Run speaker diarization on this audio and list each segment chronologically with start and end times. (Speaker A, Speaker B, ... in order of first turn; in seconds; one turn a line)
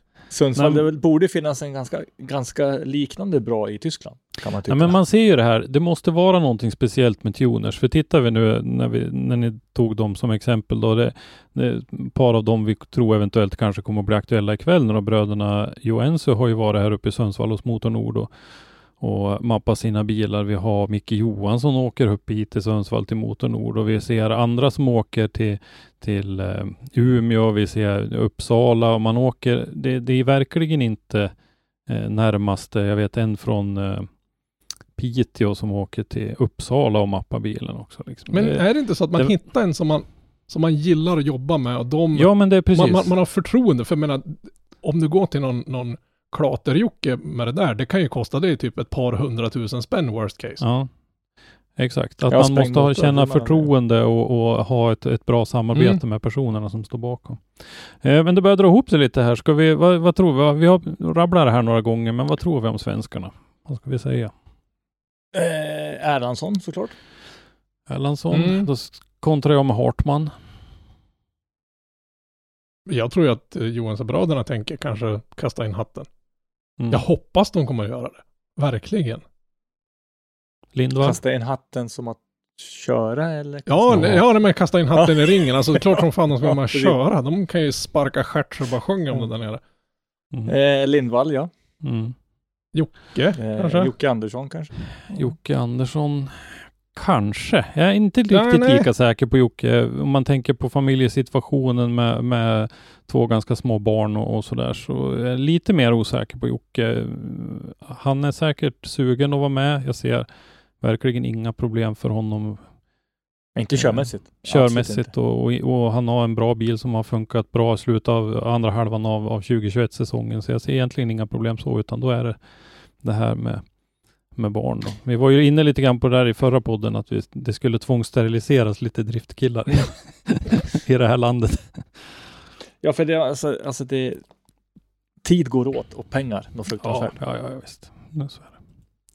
Speaker A: 0.3-4.9
Speaker B: 0.6-0.8
Speaker B: 4.7-18.3
Speaker B: 19.0-31.3
Speaker B: 31.9-34.1
Speaker B: 35.0-38.6
Speaker C: 38.3-50.6
Speaker B: 42.1-43.1
Speaker B: 50.6-50.9
Speaker B: 51.8-64.3
Speaker A: 52.3-53.7
Speaker C: 55.7-56.0
Speaker A: 65.3-66.9
Speaker B: 67.9-70.3
Speaker C: 68.3-68.7
Speaker C: 72.9-76.1
Speaker C: 76.9-79.2
Speaker B: 80.7-81.2
Speaker A: 81.0-84.2
Speaker C: 83.7-89.6
Speaker B: 83.9-84.2
Speaker A: 85.0-87.0
Speaker A: 90.5-91.5
Speaker B: 91.8-92.1
Speaker C: 92.7-93.9
Speaker A: 93.4-95.2
Speaker B: 95.1-110.3
Speaker C: 98.3-98.9
Speaker B: 110.8-112.6
Speaker A: 113.5-115.1
Speaker B: 113.8-122.4
Speaker B: 123.0-123.6
Speaker B: 124.3-132.2
Speaker A: 132.8-134.2
Speaker A: 135.2-137.2
Speaker B: 136.8-138.6